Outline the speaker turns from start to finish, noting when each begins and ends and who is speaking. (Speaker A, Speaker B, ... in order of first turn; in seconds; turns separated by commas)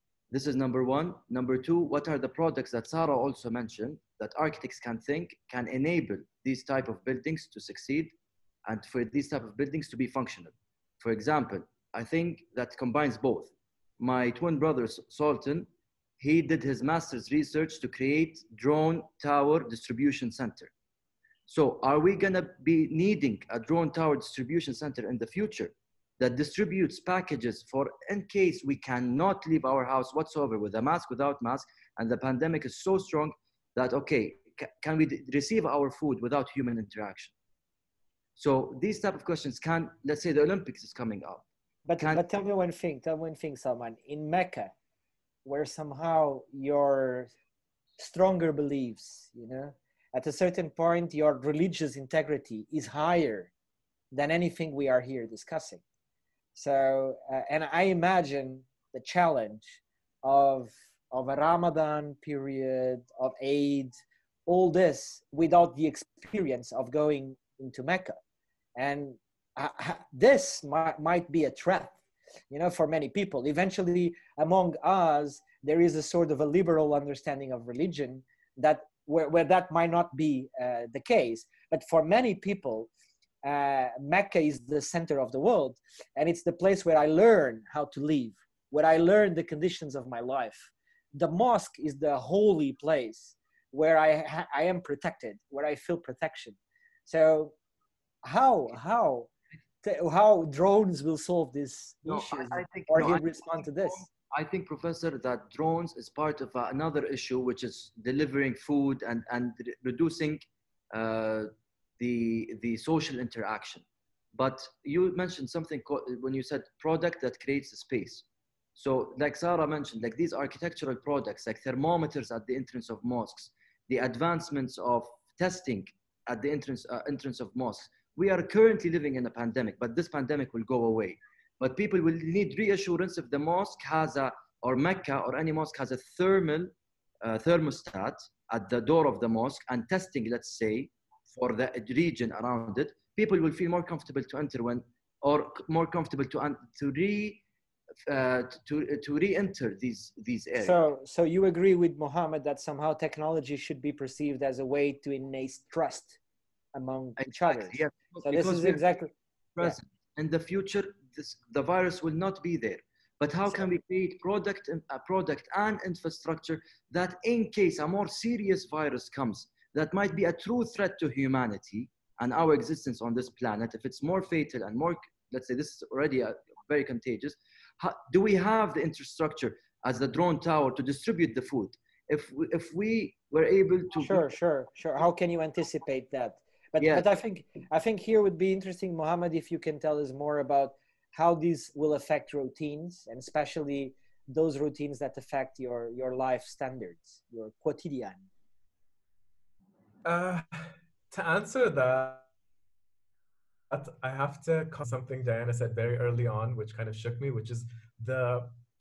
Speaker A: 0.3-8.1, Speaker A: 8.7-15.7, Speaker A: 16.2-20.7, Speaker A: 21.5-37.3, Speaker A: 38.4-41.5, Speaker B: 41.9-44.7, Speaker B: 45.5-47.3, Speaker B: 48.0-53.5, Speaker B: 54.1-55.8, Speaker B: 56.5-63.9, Speaker B: 64.5-68.2, Speaker B: 68.8-72.0, Speaker B: 72.5-82.9, Speaker B: 83.4-97.5, Speaker B: 98.2-99.3, Speaker B: 99.8-104.1, Speaker A: 102.1-118.2, Speaker A: 118.8-147.4, Speaker A: 148.1-150.8, Speaker B: 150.6-156.2, Speaker B: 156.7-159.8, Speaker A: 157.2-158.8, Speaker A: 159.6-184.2, Speaker B: 184.0-198.3, Speaker A: 186.8-187.1, Speaker C: 200.1-202.3, Speaker C: 203.7-208.5